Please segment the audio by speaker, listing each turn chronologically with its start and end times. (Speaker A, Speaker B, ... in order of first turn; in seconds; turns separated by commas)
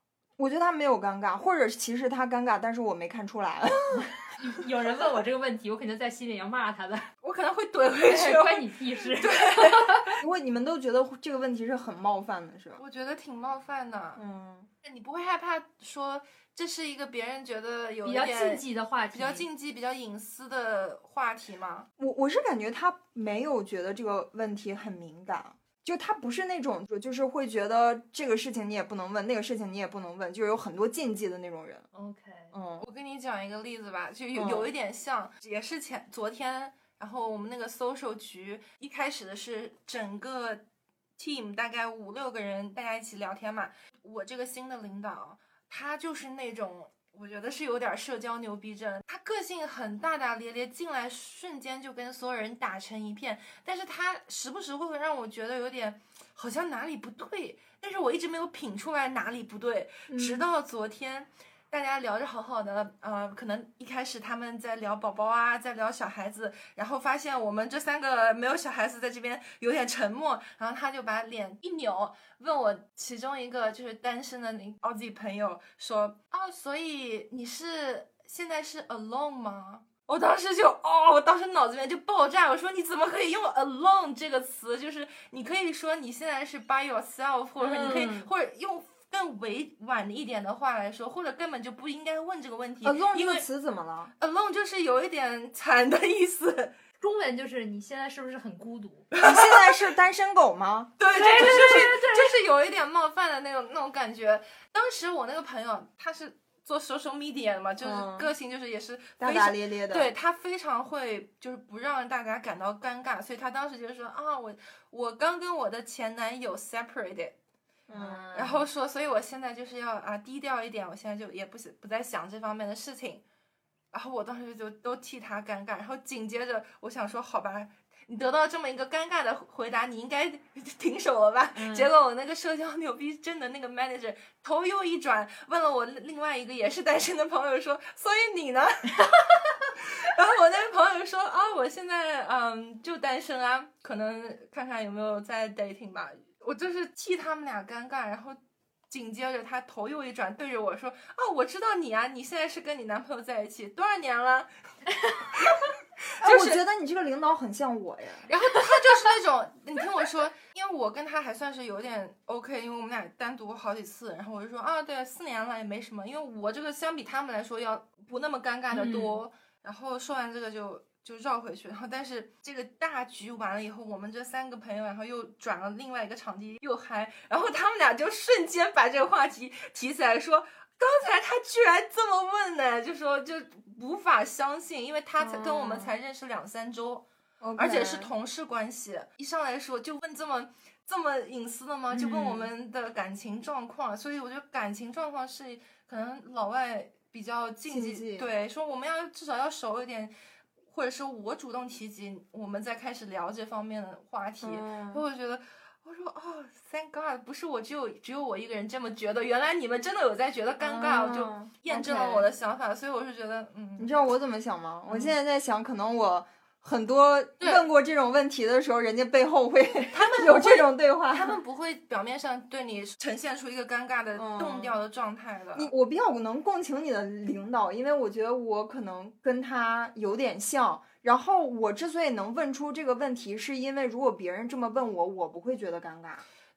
Speaker A: 0.4-4.1, Speaker B: 4.4-7.1, Speaker C: 7.2-10.0, Speaker B: 8.1-10.2, Speaker A: 10.2-12.8, Speaker C: 12.8-14.2, Speaker A: 14.2-14.7, Speaker C: 14.8-21.9, Speaker B: 18.0-19.4, Speaker A: 22.0-31.9, Speaker B: 31.9-32.5, Speaker A: 32.5-32.9, Speaker C: 32.8-40.6, Speaker A: 34.3-34.7, Speaker C: 41.2-93.4, Speaker A: 60.1-60.5, Speaker A: 87.6-88.3, Speaker A: 92.8-94.1, Speaker C: 94.2-96.7, Speaker B: 97.0-99.1, Speaker C: 99.1-99.8, Speaker A: 99.2-101.9, Speaker C: 101.0-117.3, Speaker B: 101.1-102.3, Speaker A: 107.8-108.3, Speaker A: 109.2-110.1, Speaker A: 117.9-118.6, Speaker C: 117.9-123.2, Speaker C: 123.9-148.4, Speaker A: 131.6-131.9, Speaker C: 148.9-154.5, Speaker C: 155.3-155.6, Speaker C: 156.2-156.6, Speaker A: 156.2-158.3, Speaker C: 158.3-187.1, Speaker B: 168.7-169.2, Speaker A: 185.2-185.9, Speaker A: 187.4-188.1, Speaker C: 187.6-200.1, Speaker A: 191.9-192.5, Speaker A: 197.7-198.3, Speaker C: 200.7-213.9, Speaker A: 204.4-205.0, Speaker A: 210.6-212.3, Speaker A: 213.8-221.4, Speaker C: 214.9-215.1, Speaker C: 217.4-217.7, Speaker C: 219.9-225.7, Speaker A: 224.1-224.7, Speaker A: 225.5-236.2